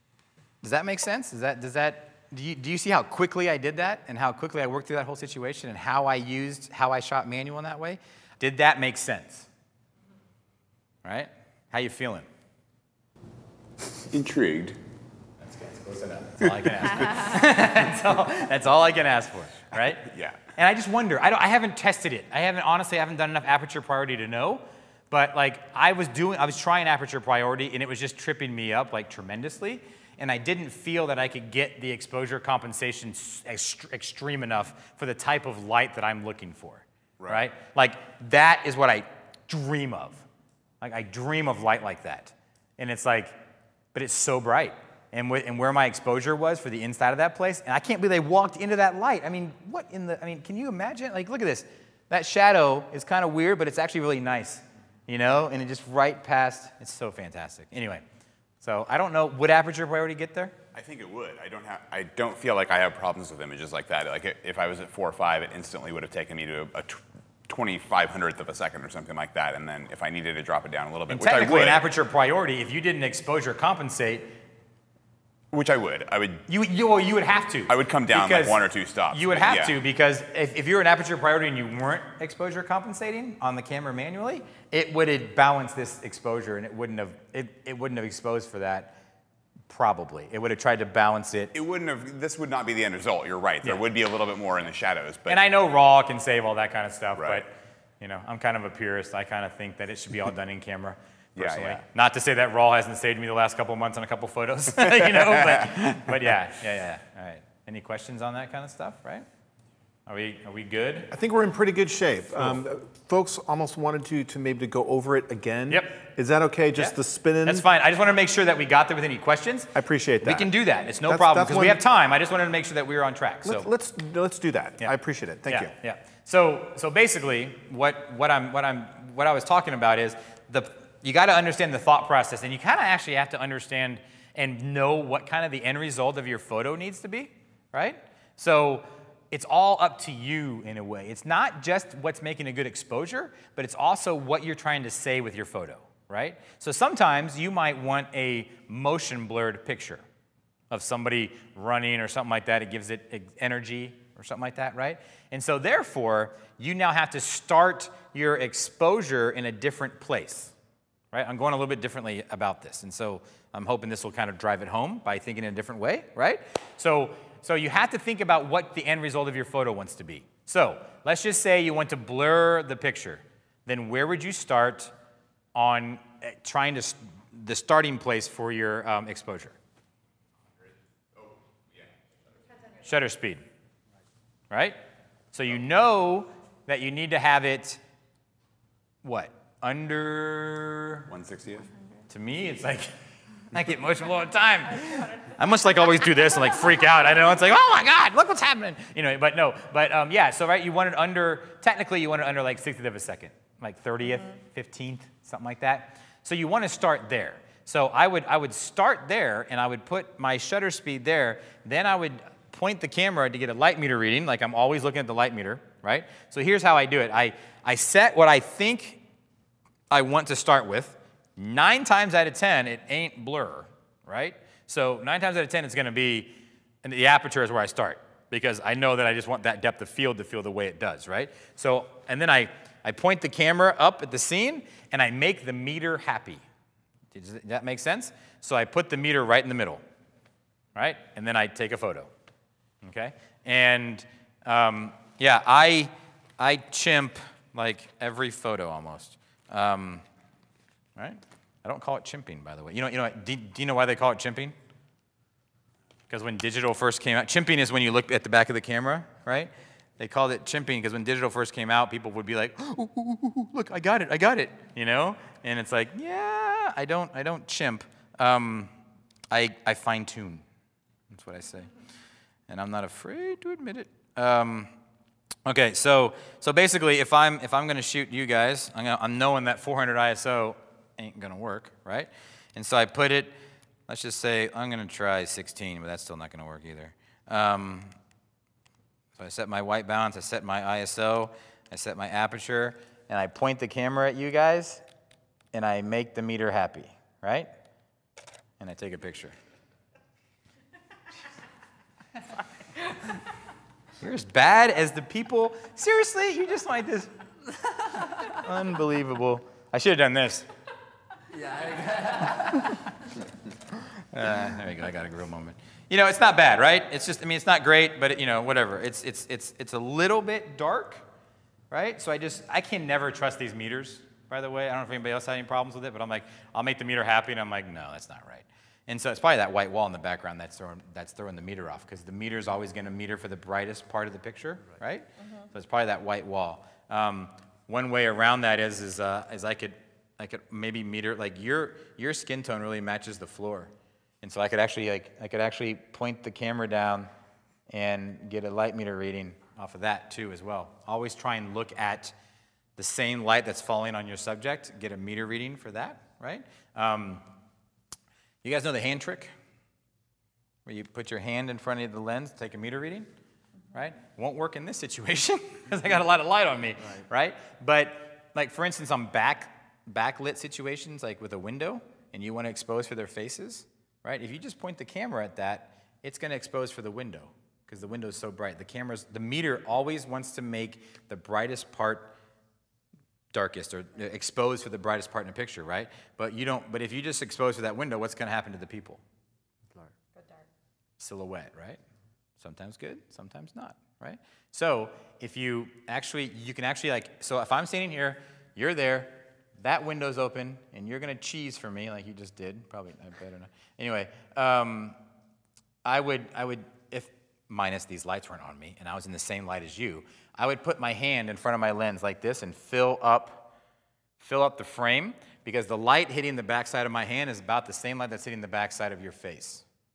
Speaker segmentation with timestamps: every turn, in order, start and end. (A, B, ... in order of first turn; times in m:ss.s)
0:00.6-0:09.5 A
0:11.0-0:12.3 A
0:14.1-0:14.8 B
0:15.4-0:40.2 A
0:20.0-0:20.4 B
0:40.8-0:43.4 A
0:43.9-0:58.0 A
0:58.6-1:00.6 A
1:00.7-1:11.8 B
1:11.1-1:14.4 A
1:15.5-1:16.4 B
1:16.5-1:29.0 A
1:17.7-1:19.8 B
1:29.7-1:31.5 A
1:31.5-1:35.4 B
1:35.3-1:49.3 A
1:41.4-1:41.8 B
1:50.1-1:51.1 A
1:51.1-1:57.7 C
1:55.7-1:56.0 A
1:56.8-2:03.7 A
1:59.8-2:01.8 C
2:03.4-2:05.7 C
2:05.5-2:30.0 A
2:30.7-2:40.5 A
2:41.1-2:54.9 A
2:55.6-2:59.6 A
3:02.8-3:03.4 A
3:04.5-3:04.8 A
3:05.3-3:07.8 A
3:09.0-3:11.1 A
3:11.1-3:11.7 B
3:12.1-3:12.9 A
3:13.5-3:39.0 A
3:39.9-3:56.4 A
3:57.1-3:59.8 A
4:00.8-4:02.1 A
4:02.8-4:10.0 A
4:11.0-4:14.6 A
4:16.1-4:28.7 A
4:29.3-4:30.4 A
4:31.1-4:31.7 A
4:32.5-4:34.7 A
4:35.4-4:43.4 A
4:43.9-4:48.0 A
4:49.2-4:54.8 A
4:55.5-4:57.5 A
4:58.6-4:59.4 A
5:04.0-5:07.1 A
5:07.8-5:10.5 A
5:11.9-5:12.8 A
5:13.9-5:21.0 A
5:21.7-5:47.1 A
5:47.7-5:52.2 A
5:52.8-5:57.2 A
5:58.4-5:59.3 A
6:00.6-6:03.1 A
6:03.7-6:22.1 A
6:23.3-6:29.0 A
6:31.0-6:31.8 A
6:32.4-6:45.0 A
6:45.8-6:53.5 A
6:54.2-6:59.6 A